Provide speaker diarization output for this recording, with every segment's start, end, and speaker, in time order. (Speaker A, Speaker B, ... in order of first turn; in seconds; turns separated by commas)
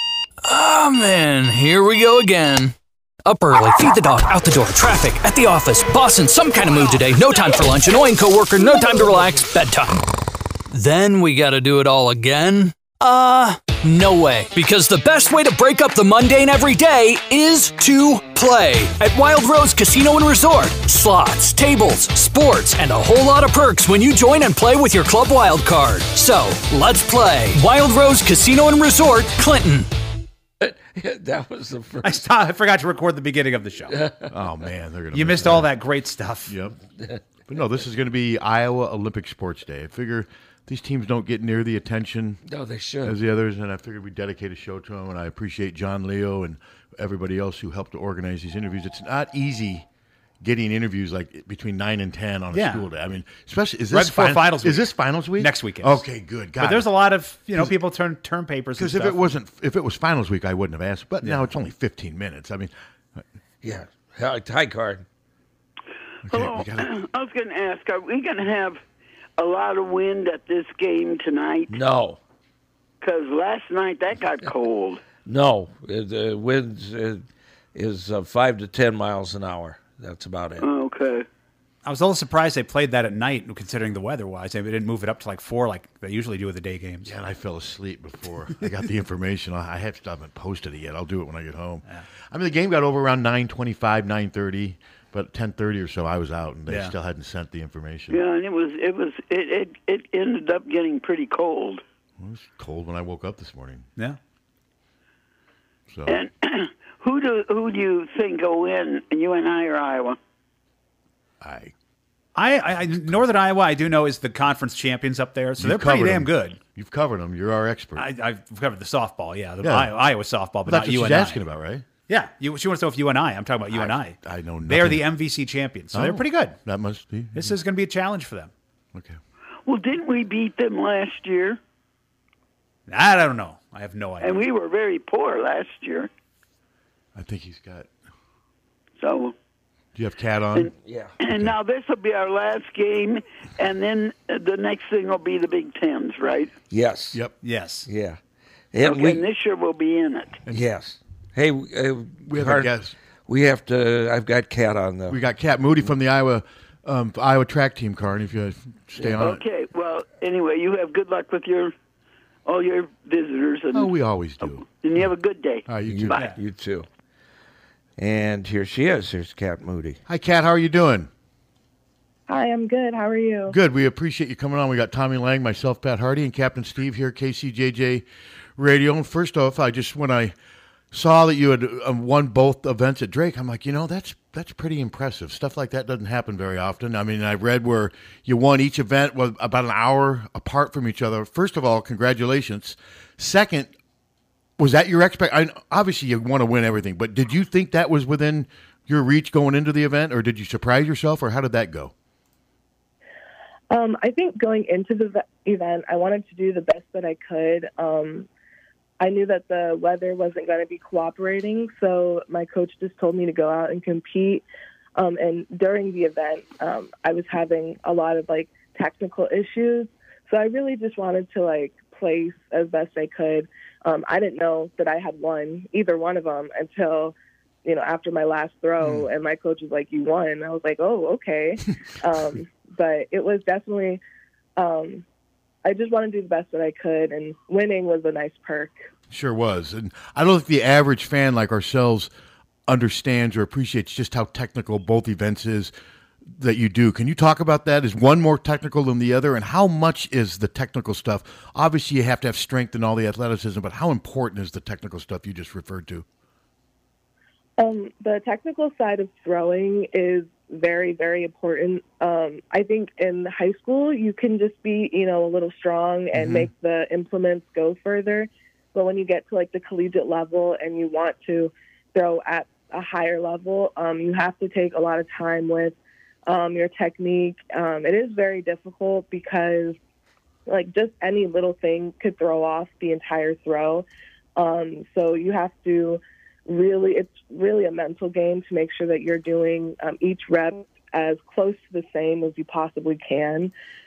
Speaker A: 0.4-10.0, Speaker A: 10.7-29.9, Speaker B: 30.6-32.2, Speaker C: 32.0-34.0, Speaker B: 33.9-34.3, Speaker D: 34.3-35.7, Speaker C: 35.1-36.5, Speaker D: 36.5-36.8, Speaker D: 37.5-42.4, Speaker B: 42.5-43.1, Speaker D: 43.0-49.9, Speaker D: 50.4-56.9, Speaker C: 52.5-52.9, Speaker C: 53.9-56.0, Speaker C: 56.6-59.2, Speaker D: 58.8-63.2, Speaker B: 63.6-65.0, Speaker D: 66.2-66.9, Speaker E: 66.3-68.8, Speaker E: 69.4-71.7, Speaker B: 71.7-72.2, Speaker E: 73.0-75.0, Speaker B: 75.2-77.2, Speaker B: 77.7-80.7, Speaker E: 80.6-81.2, Speaker C: 81.8-87.1, Speaker D: 87.0-98.2, Speaker C: 96.7-96.9, Speaker E: 98.1-101.8, Speaker D: 102.2-103.8, Speaker D: 105.9-106.2, Speaker E: 106.1-110.2, Speaker D: 111.4-111.7, Speaker C: 112.3-116.6, Speaker D: 115.6-118.0, Speaker C: 118.0-121.4, Speaker D: 119.6-119.9, Speaker D: 120.7-121.8, Speaker C: 122.1-126.5, Speaker D: 123.7-125.0, Speaker D: 125.9-127.5, Speaker C: 127.3-128.5, Speaker E: 129.7-131.6, Speaker C: 132.9-134.4, Speaker E: 134.2-136.1, Speaker D: 137.1-137.9, Speaker E: 139.0-139.3, Speaker D: 139.9-140.7, Speaker E: 140.5-146.5, Speaker B: 140.8-141.1, Speaker D: 141.3-141.6, Speaker B: 146.7-147.2, Speaker C: 147.4-147.9, Speaker B: 147.8-148.2, Speaker B: 148.7-149.2, Speaker E: 148.8-150.4, Speaker B: 150.5-152.7, Speaker D: 152.2-152.9, Speaker B: 153.3-155.2, Speaker D: 155.1-159.4, Speaker B: 159.0-159.3, Speaker E: 159.2-161.7, Speaker E: 162.4-166.2, Speaker D: 163.7-165.1, Speaker D: 165.7-166.2, Speaker B: 165.8-166.9, Speaker B: 168.0-170.0, Speaker D: 170.1-171.1, Speaker F: 172.3-173.6, Speaker D: 173.5-178.0, Speaker D: 178.6-180.3, Speaker D: 180.9-193.7, Speaker D: 194.6-201.9, Speaker F: 203.7-208.3, Speaker F: 209.0-214.4, Speaker F: 214.9-234.0, Speaker D: 228.8-229.1, Speaker F: 234.6-235.0, Speaker F: 235.6-238.7, Speaker D: 239.1-242.1, Speaker D: 242.7-245.7, Speaker D: 246.3-256.1, Speaker F: 257.6-275.8, Speaker D: 266.1-266.5, Speaker F: 276.3-279.8, Speaker F: 280.5-283.8, Speaker F: 284.4-293.5